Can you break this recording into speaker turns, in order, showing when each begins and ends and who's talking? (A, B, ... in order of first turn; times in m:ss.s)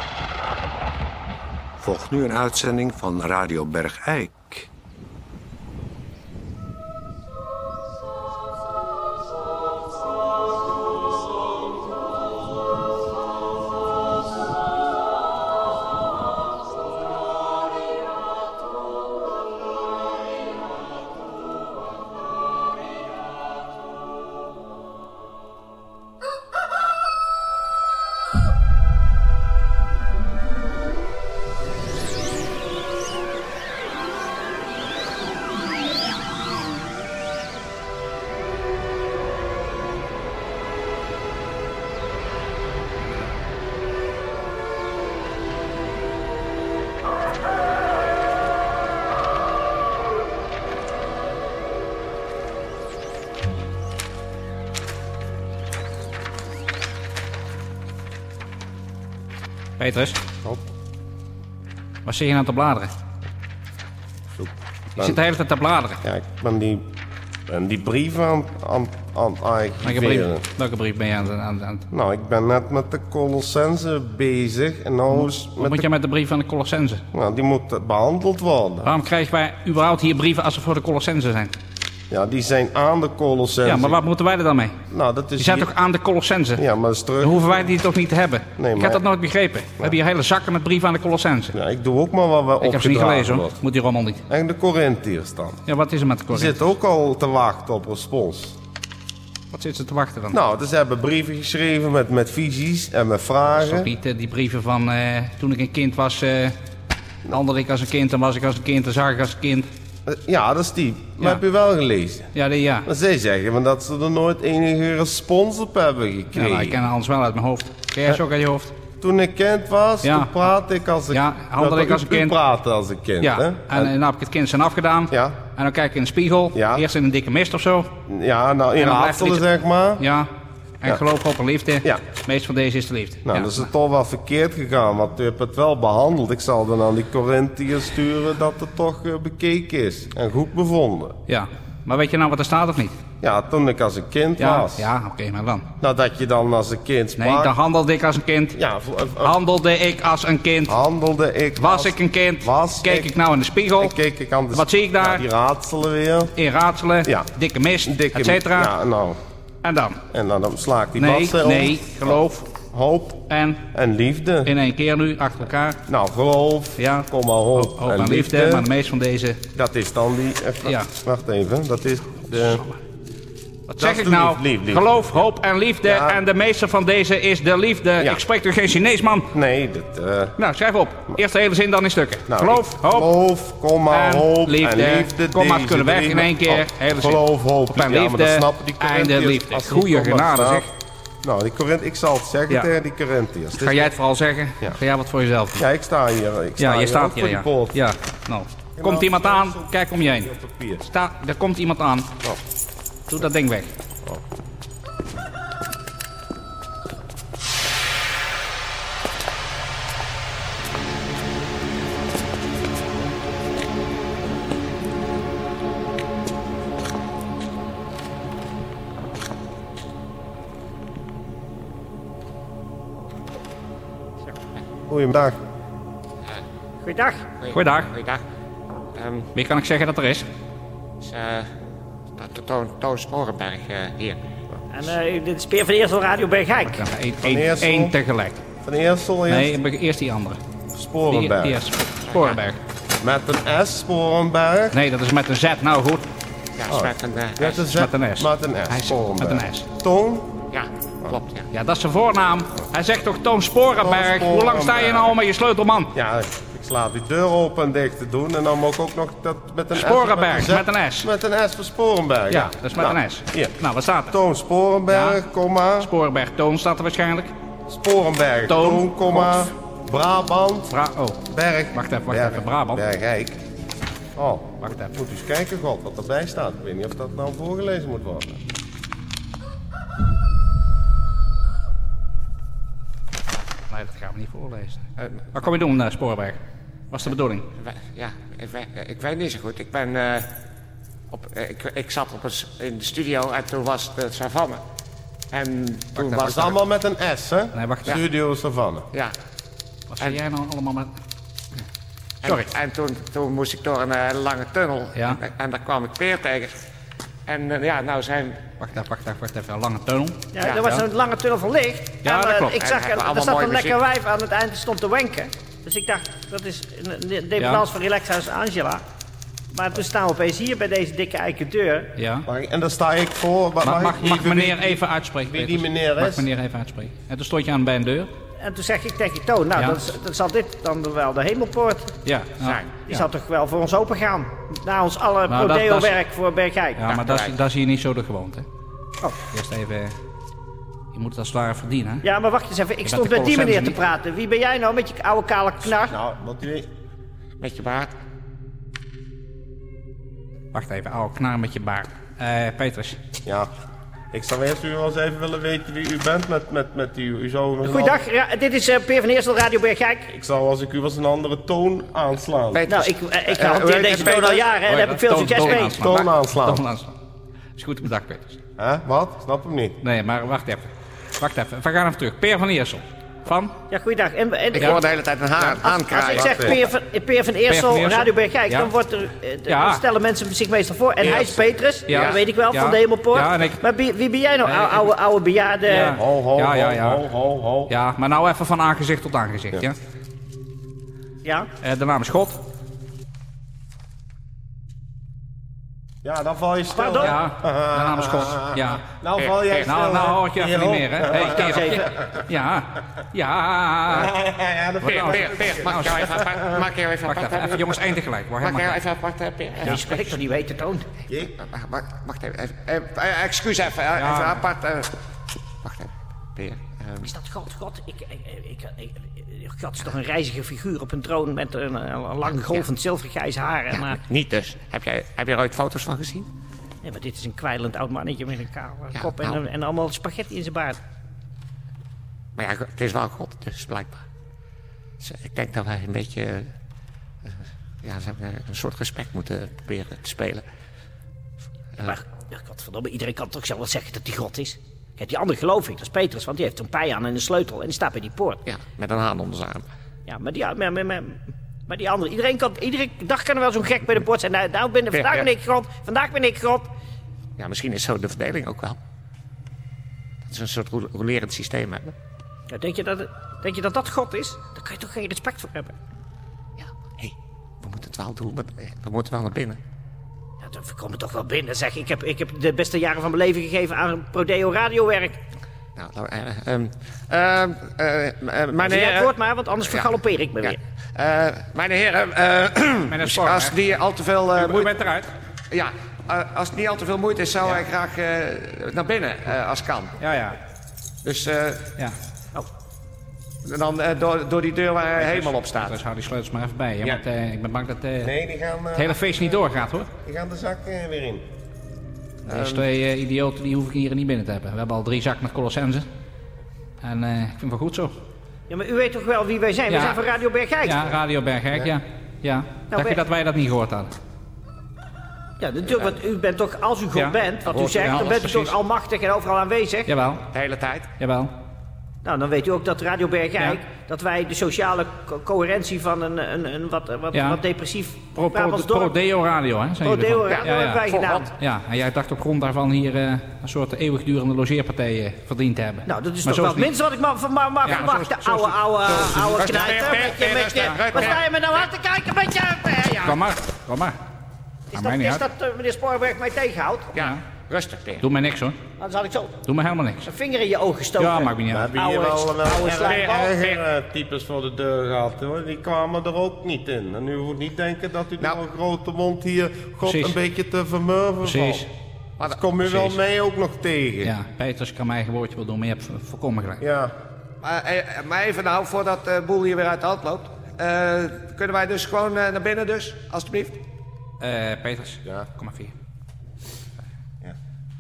0:01.8-0:04.7 A
0:59.8-1:00.2 B
1:02.0-1:02.9 B
1:04.3-1:05.2 C
1:05.0-1:06.0 B
1:06.0-1:06.8 C
1:07.5-1:10.4 C
1:09.8-1:11.8 B
1:11.9-1:15.9 C
1:15.1-1:17.0 B
1:17.1-1:18.9 C
1:18.8-1:21.6 B
1:22.1-1:24.0 C
1:23.6-1:24.8 B
1:24.9-1:25.7 C
1:25.4-1:26.6 B
1:26.6-1:27.7 C
1:27.2-1:31.6 B
1:28.6-1:29.0 C
1:31.5-1:33.6 C
1:32.6-1:34.2 B
1:34.3-1:35.6 C
1:35.7-1:36.6 B
1:36.3-1:38.6 C
1:39.5-1:40.4 B
1:40.3-1:43.9 C
1:43.5-1:46.6 B
1:47.3-1:49.7 B
1:50.0-1:52.3 C
1:52.4-1:52.9 B
1:52.8-1:56.8 C
1:56.4-1:58.7 B
1:59.0-2:03.9 C
2:00.0-2:00.3 B
2:01.1-2:02.4 B
2:03.2-2:07.9 B
2:05.1-2:05.4 C
2:06.5-2:06.9 C
2:08.1-2:10.0 C
2:08.8-2:09.4 B
2:10.0-2:10.3 B
2:10.8-2:13.7 B
2:13.2-2:21.1 C
2:21.3-2:23.0 B
2:23.2-2:24.9 C
2:24.4-2:25.6 B
2:25.8-2:27.5 C
2:27.2-2:28.6 B
2:28.5-2:29.4 C
2:29.2-2:30.7 B
2:30.7-2:33.1 C
2:31.6-2:33.9 B
2:33.8-2:36.3 C
2:34.5-2:35.2 B
2:36.4-2:38.7 B
2:37.0-2:37.3 C
2:37.8-2:39.2 C
2:39.6-2:40.0 B
2:40.1-2:44.5 C
2:41.0-2:42.5 B
2:43.3-2:43.6 B
2:44.4-2:45.8 B
2:45.9-2:48.7 C
2:46.8-2:49.4 B
2:49.6-2:52.6 C
2:52.4-2:52.7 B
2:53.7-2:59.3 B
2:53.8-2:55.0 C
2:55.8-2:56.2 C
2:59.3-3:00.3 C
3:00.4-3:03.1 B
3:02.3-3:10.6 C
3:03.9-3:07.2 B
3:07.7-3:10.7 B
3:11.2-3:14.0 C
3:13.6-3:15.6 B
3:15.6-3:17.8 C
3:16.6-3:20.3 B
3:18.8-3:20.9 C
3:20.8-3:22.1 B
3:23.1-3:23.7 B
3:44.9-3:45.4 C
3:46.8-3:47.3 D
3:47.4-3:48.2 E
3:47.5-3:47.9 B
3:48.9-3:49.3 E
3:49.3-3:50.3 B
3:51.0-3:51.5 E
3:52.2-3:54.2 E
3:54.7-3:56.8 D
3:56.7-3:58.4 B
3:57.2-3:58.0 C
3:58.6-3:59.5 C
3:59.3-4:00.4 B
4:00.7-4:01.6 C
4:01.1-4:02.6 B
4:02.0-4:02.4 E
4:03.0-4:04.8 C
4:04.7-4:06.1 B
4:06.6-4:07.7 E
4:06.7-4:10.3 C
4:07.7-4:09.6 B
4:10.5-4:11.5 E
4:11.5-4:15.9 B
4:13.8-4:15.2 C
4:15.9-4:25.9 C
4:19.7-4:21.1 B
4:22.3-4:24.1 B
4:24.9-4:25.2 B
4:25.8-4:27.3 B
4:27.7-4:30.8 C
4:28.5-4:29.4 B
4:30.7-4:31.2 B
4:31.3-4:33.4 C
4:31.7-4:32.8 B
4:34.2-4:38.4 C
4:34.6-4:34.9 B
4:43.7-4:47.5 B
4:45.0-4:45.2 E
4:47.5-4:50.3 E
4:51.1-4:54.6 E
4:55.3-4:56.6 E
4:56.2-4:58.9 C
4:57.6-4:57.9 B
4:59.9-5:00.9 B
5:02.2-5:06.6 E
5:02.2-5:02.5 B
5:07.3-5:08.4 E
5:08.6-5:10.8 B
5:10.3-5:18.8 D
5:10.4-5:10.7 E
5:12.0-5:12.6 B
5:12.6-5:13.8 E
5:17.4-5:17.6 B
5:19.5-5:21.9 D
5:22.0-5:22.2 B
5:22.2-5:26.3 C
5:23.6-5:28.1 B
5:28.4-5:31.9 D
5:32.0-5:33.0 B
5:32.4-5:32.8 E
5:32.9-5:36.8 D
5:35.3-5:36.0 B
5:36.8-5:38.4 B
5:36.8-5:37.4 E
5:39.3-5:40.0 B
5:40.9-5:42.0 B
5:42.0-5:46.0 D
5:42.8-5:43.8 B
5:45.8-5:46.7 C
5:47.4-5:47.9 E
5:50.5-5:53.0 B
5:53.2-5:53.5 C
5:54.1-5:58.0 C
5:57.6-6:00.1 D
6:00.1-6:02.6 C
6:02.5-6:04.5 E
6:02.6-6:05.8 D
6:04.5-6:07.0 B
6:05.7-6:06.6 C
6:07.6-6:08.4 B
6:08.6-6:09.8 C
6:09.8-6:13.6 B
6:13.7-6:14.8 D
6:14.5-6:16.6 E
6:15.5-6:25.9 D
6:16.1-6:16.6 C
6:17.5-6:18.7 B
6:19.5-6:19.8 B
6:21.0-6:21.4 E
6:21.9-6:23.6 B
6:21.9-6:22.2 E
6:24.5-6:24.9 B
6:25.7-6:27.0 B
6:25.9-6:27.7 C
6:27.7-6:29.8 B
6:31.2-6:31.5 D
6:31.6-6:32.4 B
6:36.0-6:42.0 C
6:36.7-6:37.2 D
6:37.0-6:38.9 B
6:39.2-6:39.7 E
6:39.6-6:44.1 B
6:41.2-6:41.8 D
6:43.9-6:46.6 C
6:44.8-6:46.0 B
6:44.8-6:47.9 E
6:47.0-6:48.8 B
6:48.4-6:50.2 E
6:49.6-6:50.9 D
6:51.1-6:51.3 C
6:51.4-6:54.9 E
6:54.0-6:54.4 B
6:55.6-6:57.1 E
6:57.0-7:04.0 D
7:02.2-7:02.7 E
7:03.7-7:06.3 E
7:06.8-7:10.8 D
7:08.9-7:09.4 E
7:12.4-7:14.0 E
7:15.0-7:16.5 E
7:17.8-7:20.4 E
7:21.8-7:28.4 D
7:28.4-7:29.7 E
7:30.0-7:36.7 D
7:34.9-7:35.3 E
7:37.4-7:38.8 E
7:40.2-7:41.9 E
7:42.5-7:45.7 D
7:46.6-7:49.6 E
7:50.4-7:55.2 D
7:55.8-8:04.7 E
7:58.6-8:00.6 D
8:02.9-8:03.8 B
8:04.4-8:05.1 B
8:05.5-8:10.0 E
8:10.0-8:10.4 B
8:11.0-8:11.7 E
8:13.4-8:15.8 E
8:15.0-8:18.1 B
8:18.0-8:19.4 C
8:18.8-8:19.9 B
8:20.0-8:21.2 C
8:22.2-8:25.9 B
8:22.3-8:22.6 E
8:26.8-8:27.9 B
8:28.5-8:30.9 D
8:29.7-8:30.0 B
8:30.6-8:33.9 B
8:32.7-8:33.0 D
8:35.4-8:39.9 D
8:36.9-8:38.5 B
8:37.5-8:38.0 E
8:39.9-8:40.2 B
8:40.3-8:40.9 E
8:41.0-8:41.3 B
8:42.0-8:49.0 D
8:47.1-8:47.4 B
8:48.1-8:56.7 B
8:49.8-8:51.4 D
8:50.3-8:51.3 E
8:55.8-9:03.2 D
8:57.7-8:59.4 B
8:59.2-9:01.2 E
9:03.0-9:04.0 B
9:04.7-9:05.2 B
9:04.7-9:06.9 D
9:06.9-9:08.0 E
9:07.0-9:07.2 B
9:08.0-9:08.6 B
9:08.8-9:09.4 D
9:09.4-9:10.1 B
9:10.0-9:13.3 D
9:11.0-9:11.7 B
9:11.5-9:21.6 C
9:12.8-9:13.6 E
9:19.8-9:20.2 B
9:21.2-9:21.7 B
9:22.2-9:22.5 E
9:22.2-9:24.1 C
9:22.6-9:23.0 B
9:24.0-9:26.6 B
9:26.6-9:26.9 C
9:27.4-9:33.6 E
9:34.2-9:35.7 B